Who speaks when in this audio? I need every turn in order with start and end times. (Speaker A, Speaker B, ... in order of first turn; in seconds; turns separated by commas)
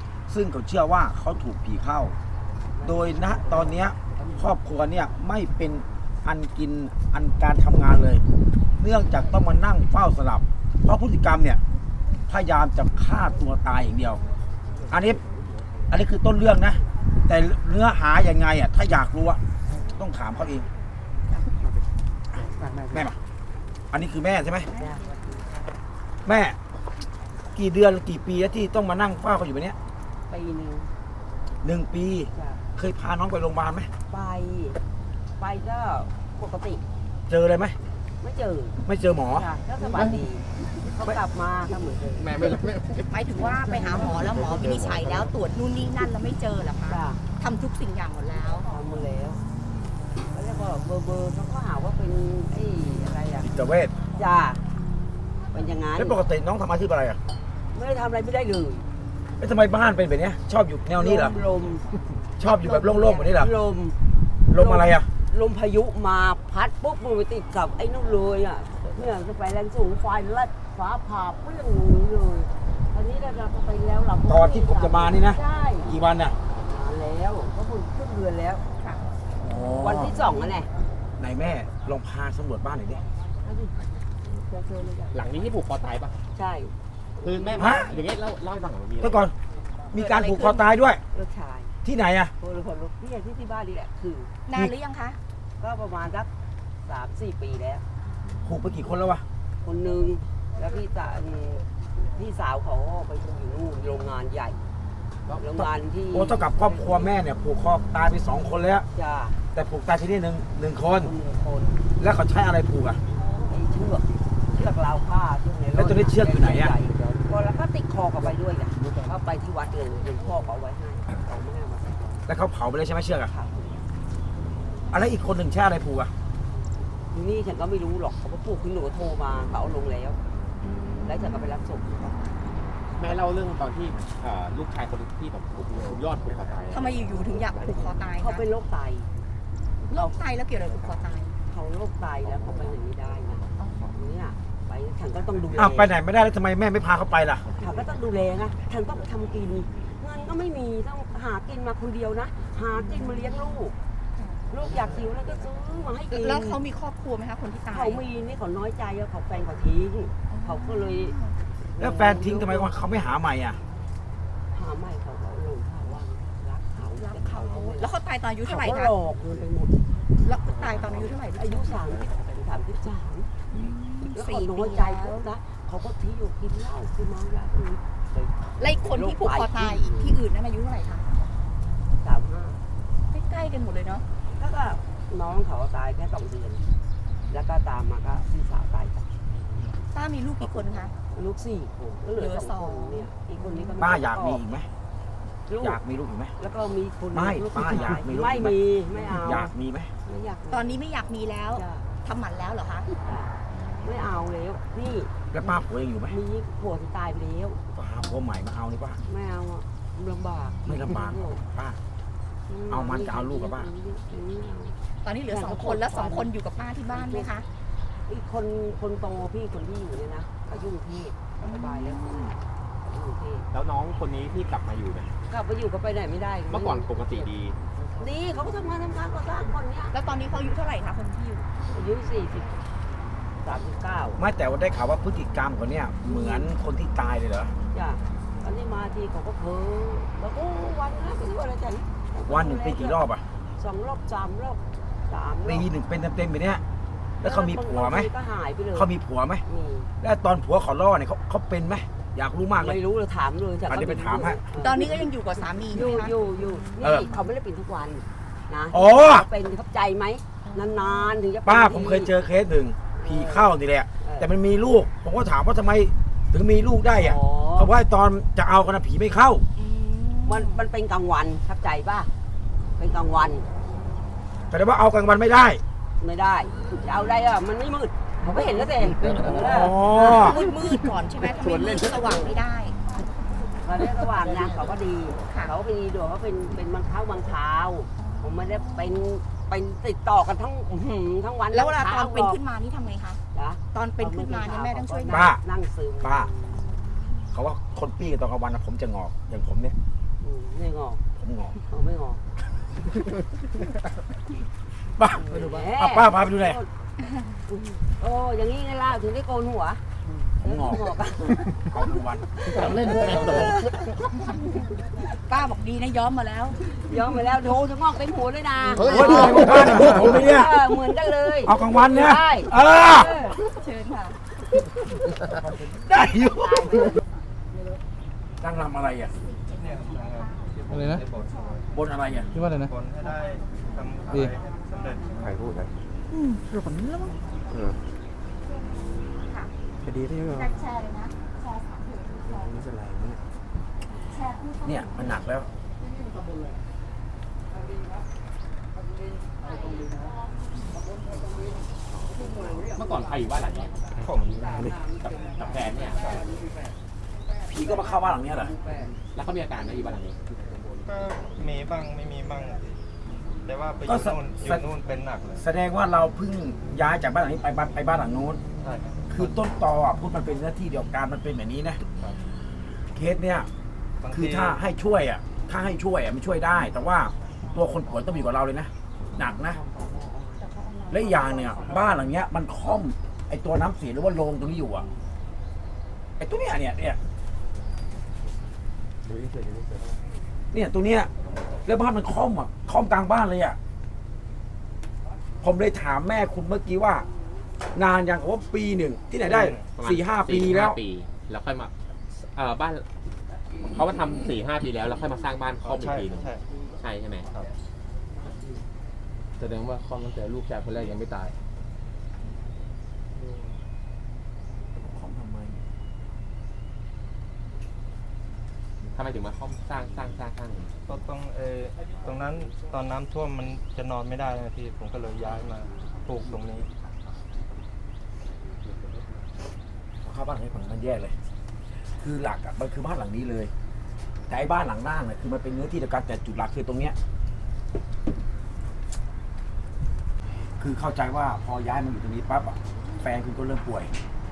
Speaker A: 0.3-2.1, Speaker B: 2.8-4.4, Speaker A: 2.8-8.2, Speaker A: 8.8-11.6, Speaker A: 12.3-14.2, Speaker A: 14.9-15.2, Speaker A: 15.9-20.7, Speaker A: 22.3-23.2, Speaker A: 23.9-24.7, Speaker B: 24.7-25.2, Speaker A: 26.2-26.6, Speaker A: 27.5-29.8, Speaker B: 30.3-30.9, Speaker A: 31.6-33.9, Speaker B: 32.3-32.6, Speaker B: 34.1-34.8, Speaker B: 35.4-36.8, Speaker A: 37.3-37.8, Speaker B: 38.2-38.8, Speaker A: 38.9-39.5, Speaker B: 39.3-42.4, Speaker C: 42.2-42.6, Speaker D: 43.1-48.7, Speaker C: 44.2-45.3, Speaker B: 46.9-47.2, Speaker B: 48.6-49.4, Speaker B: 50.3-53.5, Speaker A: 53.4-53.9, Speaker B: 54.1-54.6, Speaker B: 55.5-56.2, Speaker A: 56.0-57.2, Speaker B: 57.7-58.9, Speaker A: 59.4-61.4, Speaker B: 61.0-61.9, Speaker A: 62.4-63.5, Speaker D: 62.4-63.2, Speaker B: 63.2-64.0, Speaker A: 64.5-65.1, Speaker B: 64.5-75.9, Speaker A: 74.3-76.3, Speaker B: 76.6-78.6, Speaker D: 78.8-79.1, Speaker A: 79.4-80.2, Speaker B: 79.8-80.7, Speaker A: 81.2-83.0, Speaker B: 83.4-83.7, Speaker B: 84.4-85.1, Speaker C: 85.1-86.1, Speaker B: 86.3-87.8, Speaker C: 87.2-89.2, Speaker A: 87.6-87.9, Speaker A: 89.0-89.3, Speaker A: 89.9-91.0, Speaker D: 89.9-90.7, Speaker B: 91.1-91.7, Speaker A: 91.8-92.3, Speaker B: 92.4-94.3, Speaker D: 94.5-95.2, Speaker B: 95.6-96.3, Speaker B: 96.8-97.8, Speaker A: 98.4-99.2, Speaker B: 99.6-104.6, Speaker B: 105.4-107.1, Speaker A: 105.5-108.8, Speaker B: 108.9-109.4, Speaker A: 109.5-111.1, Speaker B: 111.0-111.8, Speaker A: 112.0-113.0, Speaker B: 113.5-122.2, Speaker A: 115.7-116.7, Speaker A: 122.3-123.3, Speaker B: 123.3-123.8, Speaker A: 124.9-126.1, Speaker B: 127.1-130.2, Speaker D: 130.6-131.5, Speaker B: 131.0-132.4, Speaker C: 133.0-137.0, Speaker D: 136.7-138.4, Speaker B: 138.2-139.1, Speaker D: 139.9-141.3, Speaker B: 141.5-143.4, Speaker D: 143.6-143.8, Speaker B: 143.9-145.9, Speaker A: 145.6-147.5, Speaker B: 147.6-153.7, Speaker D: 154.2-154.4, Speaker B: 154.5-156.6, Speaker D: 156.1-158.0, Speaker B: 157.7-161.2, Speaker D: 160.3-161.3, Speaker B: 161.7-162.7, Speaker A: 161.8-163.6, Speaker B: 164.5-167.9, Speaker D: 166.9-168.9, Speaker B: 168.4-169.7, Speaker D: 170.2-171.7, Speaker B: 171.3-173.3, Speaker D: 173.5-175.2, Speaker B: 174.1-180.2, Speaker D: 178.6-181.1, Speaker B: 182.0-182.6, Speaker D: 183.1-184.0, Speaker B: 184.4-186.6, Speaker B: 187.3-189.1, Speaker D: 189.9-190.9, Speaker B: 191.1-194.4, Speaker D: 192.2-193.8, Speaker A: 193.8-194.7, Speaker B: 195.5-195.8, Speaker A: 195.6-196.3, Speaker B: 196.4-199.5, Speaker A: 197.1-198.6, Speaker A: 199.2-199.9, Speaker B: 200.1-200.8, Speaker D: 200.5-202.9, Speaker B: 201.5-201.9, Speaker B: 203.0-205.6, Speaker A: 205.3-206.2, Speaker B: 206.1-207.6, Speaker A: 207.7-209.0, Speaker B: 209.1-211.4, Speaker A: 210.6-211.8, Speaker B: 212.5-214.7, Speaker A: 212.7-213.7, Speaker D: 215.0-217.4, Speaker B: 215.2-216.2, Speaker B: 216.9-217.3, Speaker B: 218.1-223.5, Speaker D: 221.4-222.3, Speaker C: 223.5-225.1, Speaker B: 225.3-227.3, Speaker C: 226.5-227.6, Speaker B: 228.0-229.9, Speaker D: 229.9-231.5, Speaker B: 231.7-232.6, Speaker B: 233.4-234.2, Speaker A: 234.2-237.5, Speaker B: 236.1-236.4, Speaker B: 237.7-243.0, Speaker A: 242.3-243.2, Speaker B: 243.6-245.7, Speaker A: 245.4-246.6, Speaker A: 247.2-248.1, Speaker B: 247.2-248.9, Speaker A: 248.7-249.4, Speaker B: 249.5-249.9, Speaker A: 250.0-252.8, Speaker B: 252.6-255.1, Speaker A: 253.7-254.4, Speaker D: 254.6-256.1, Speaker B: 255.7-262.1, Speaker A: 256.8-257.1, Speaker A: 258.7-259.3, Speaker D: 260.4-261.1, Speaker A: 261.4-269.4, Speaker B: 262.9-264.3, Speaker B: 266.9-267.7, Speaker D: 269.6-270.6, Speaker B: 270.3-272.1, Speaker B: 272.8-273.4, Speaker A: 274.5-275.6, Speaker B: 276.0-280.5, Speaker A: 279.2-280.4, Speaker D: 280.1-282.8, Speaker B: 283.6-292.4, Speaker D: 288.0-288.9, Speaker D: 291.5-293.2, Speaker B: 293.3-296.7, Speaker D: 293.7-295.2, Speaker A: 295.1-295.4, Speaker A: 296.0-296.3, Speaker A: 297.3-299.8, Speaker B: 300.2-301.0, Speaker A: 301.2-301.6, Speaker B: 301.7-302.2, Speaker A: 305.0-306.6, Speaker B: 305.1-306.7, Speaker B: 307.5-309.8, Speaker A: 310.4-310.8, Speaker B: 310.4-311.6, Speaker A: 311.5-312.9, Speaker B: 312.6-313.5, Speaker E: 312.8-313.4, Speaker D: 315.1-316.6, Speaker B: 316.7-323.3, Speaker A: 318.8-320.5, Speaker A: 321.4-323.2, Speaker D: 322.9-324.2, Speaker A: 325.9-326.7, Speaker A: 328.4-329.1, Speaker F: 329.5-331.7, Speaker A: 331.7-332.3, Speaker E: 332.4-332.7, Speaker F: 332.5-335.3, Speaker D: 336.1-336.5, Speaker D: 339.2-339.5, Speaker D: 340.3-341.3, Speaker D: 344.0-345.2, Speaker A: 344.6-345.5, Speaker C: 352.0-354.1, Speaker F: 354.0-354.7, Speaker C: 355.2-356.3, Speaker A: 357.5-358.5, Speaker C: 359.1-360.2, Speaker F: 360.8-362.7, Speaker F: 363.4-365.4, Speaker A: 363.9-364.6, Speaker A: 365.4-368.4, Speaker F: 368.6-369.4, Speaker A: 369.1-371.8, Speaker F: 372.0-372.2, Speaker A: 372.9-373.5, Speaker F: 374.0-374.6, Speaker A: 374.1-379.6, Speaker D: 380.4-381.9, Speaker A: 380.9-384.9, Speaker A: 386.2-387.0, Speaker A: 390.5-391.1, Speaker A: 391.6-393.6, Speaker A: 395.4-397.1, Speaker A: 397.7-400.8, Speaker F: 399.2-399.8, Speaker C: 399.8-402.9, Speaker C: 403.7-407.3, Speaker F: 405.6-406.4, Speaker E: 409.4-411.3, Speaker A: 414.8-415.6, Speaker C: 418.9-420.8, Speaker F: 420.9-426.7, Speaker A: 430.0-431.1, Speaker A: 431.9-433.5, Speaker A: 434.3-436.9, Speaker A: 440.6-443.9